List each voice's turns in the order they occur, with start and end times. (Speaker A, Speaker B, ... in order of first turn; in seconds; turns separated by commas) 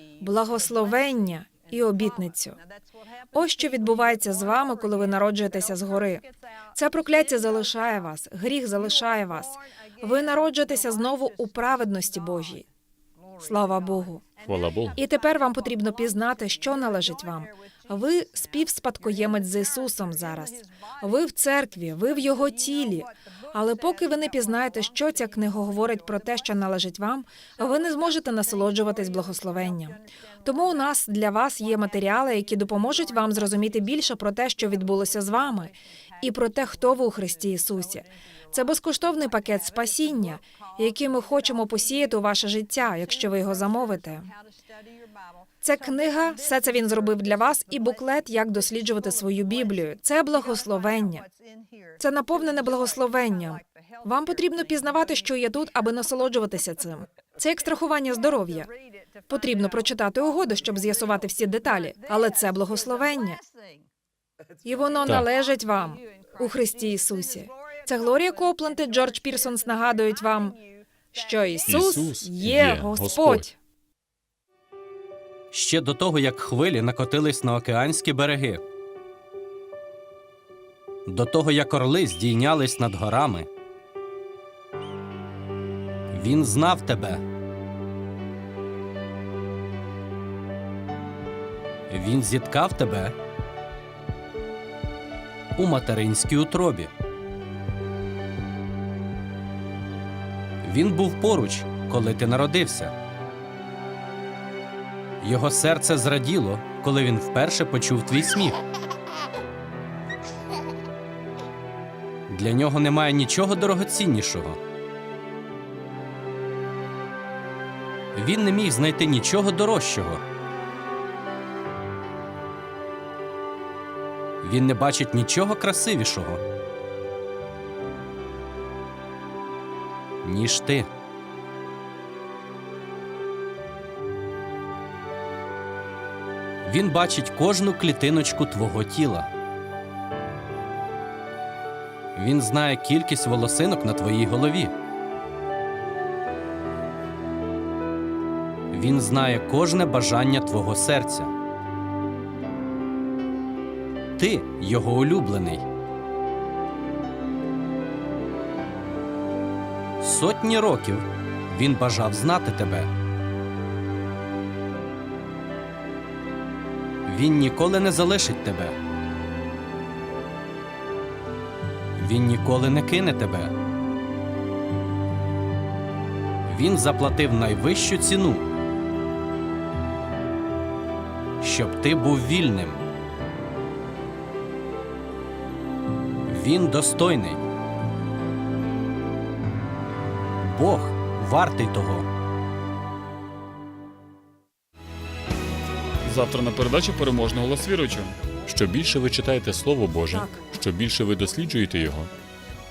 Speaker A: 0.2-2.6, Speaker A: 3.3-12.7, Speaker A: 13.4-14.2, Speaker B: 14.4-15.0, Speaker A: 15.0-44.3, Speaker A: 45.6-51.3, Speaker A: 52.0-58.7, Speaker A: 59.3-63.4, Speaker A: 64.7-70.6, Speaker A: 71.1-73.6, Speaker B: 71.7-73.5, Speaker C: 75.5-78.6, Speaker C: 81.1-83.5, Speaker C: 86.1-87.2, Speaker C: 91.9-93.2, Speaker C: 95.6-96.9, Speaker C: 100.6-102.9, Speaker C: 105.2-108.6, Speaker C: 112.3-114.6, Speaker C: 118.2-120.2, Speaker C: 124.4-126.4, Speaker C: 130.2-130.9, Speaker C: 136.7-139.3, Speaker C: 142.2-144.7, Speaker C: 148.7-151.3, Speaker C: 154.2-155.7, Speaker C: 160.0-162.9, Speaker C: 167.1-168.8, Speaker C: 172.0-173.5, Speaker C: 176.5-178.5, Speaker C: 181.4-182.8, Speaker C: 186.3-187.4, Speaker C: 190.4-192.1, Speaker D: 196.1-198.1, Speaker B: 198.5-202.1, Speaker A: 200.1-200.4